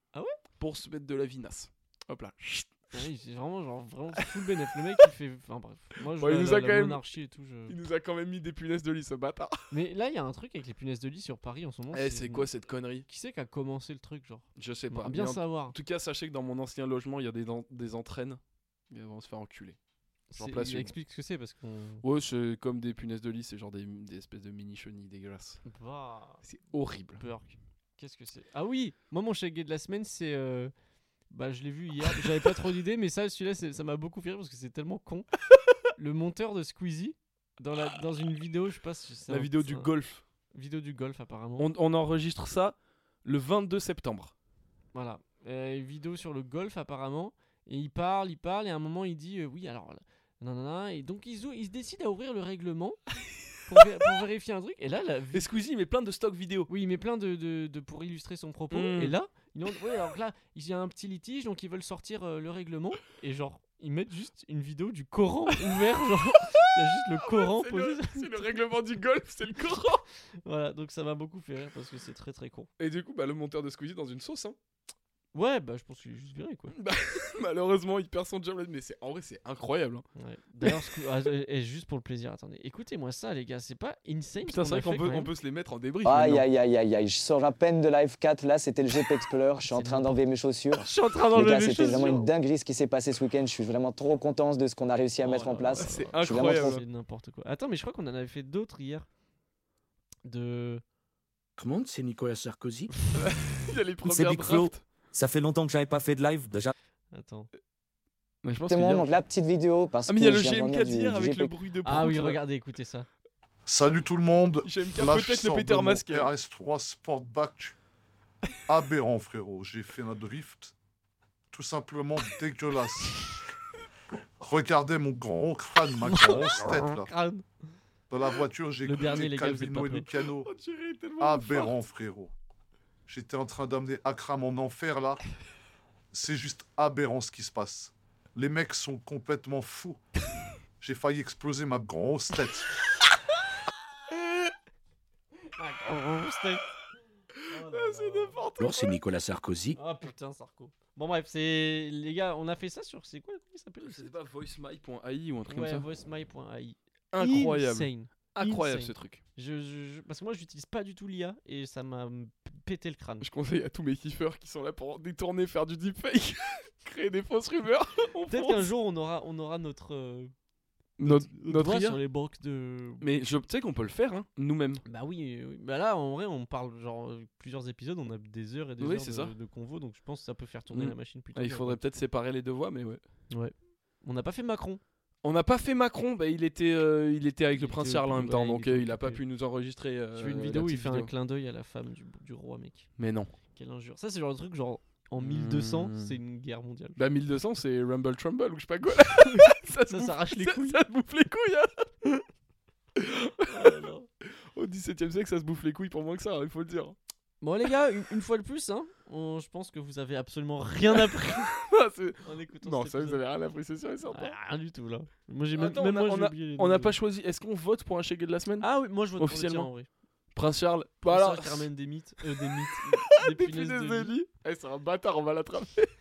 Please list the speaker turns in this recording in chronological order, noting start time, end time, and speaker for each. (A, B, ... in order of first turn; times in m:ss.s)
0:00.6-0:02.9 A
0:02.9-0:07.8 B
0:06.2-0:07.0 A
0:07.7-0:09.7 A
0:09.7-0:12.5 B
0:11.9-0:13.0 A
0:13.1-0:15.7 B
0:14.6-0:18.4 A
0:18.9-0:19.8 A
0:20.3-0:22.0 B
0:20.4-0:20.9 A
0:22.0-0:25.6 A
0:25.6-0:26.4 B
0:26.4-0:27.2 A
0:27.2-0:30.7 B
0:31.3-0:35.3 B
0:36.0-0:39.9 B
0:39.3-0:40.2 A
0:40.5-0:41.7 B
0:41.6-0:44.3 A
0:44.9-0:53.0 B
0:53.6-0:55.5 B
0:55.3-0:56.7 A
0:56.7-1:08.5 B
0:58.7-0:59.1 A
1:07.2-1:10.0 A
1:10.4-1:12.7 B
1:12.8-1:14.6 A
1:15.3-1:16.7 B
1:16.7-1:20.0 A
1:20.2-1:25.3 B
1:24.4-1:26.4 A
1:26.0-1:36.8 C
1:29.6-1:30.2 B
1:30.7-1:32.3 B
1:35.2-1:39.1 B
1:35.7-1:36.8 A
1:40.2-1:40.8 B
1:41.6-1:42.9 D
1:43.1-1:44.8 A
1:44.0-1:46.7 E
1:47.1-1:47.5 B
1:48.4-1:49.1 A
1:48.7-1:51.5 C
1:50.0-1:52.4 A
1:51.8-1:53.1 B
1:53.6-1:57.8 F
1:54.6-1:56.3 A
1:58.7-2:00.7 F
2:01.5-2:03.3 F
2:04.4-2:07.1 F
2:06.0-2:07.4 B
2:08.1-2:10.5 F
2:08.8-2:10.1 B
2:10.4-2:11.7 A
2:11.2-2:12.3 F
2:13.1-2:15.2 F
2:16.1-2:20.0 F
2:20.8-2:22.7 F
2:25.6-2:26.6 B
2:27.5-2:28.4 B
2:27.5-2:28.9 A
2:28.6-2:29.8 D
2:29.7-2:34.1 B
2:33.8-2:35.9 A
2:35.5-2:43.3 B
2:37.1-2:39.2 A
2:43.2-2:48.7 A
2:48.3-2:50.3 B
2:51.0-2:52.0 A
2:51.0-2:53.1 B
2:53.0-2:54.8 A
2:54.8-3:01.8 B
2:58.8-2:59.3 A
3:00.7-3:03.0 A
3:03.3-3:04.8 B
3:05.2-3:11.1 A
3:07.5-3:09.2 B
3:10.1-3:12.9 B
3:13.0-3:13.3 A
3:13.5-3:17.0 B
3:15.2-3:16.2 A
3:17.0-3:21.9 A
3:19.2-3:20.8 B
3:23.0-3:23.9 A
3:23.4-3:24.1 B
3:24.5-3:27.0 A
3:27.4-3:31.5 B
3:30.9-3:34.4 A
3:32.2-3:33.2 B
3:34.1-3:36.9 B
3:35.6-3:39.7 A
3:38.6-3:39.9 B
3:40.3-3:41.7 A
3:41.0-3:44.1 B
3:42.2-3:45.9 A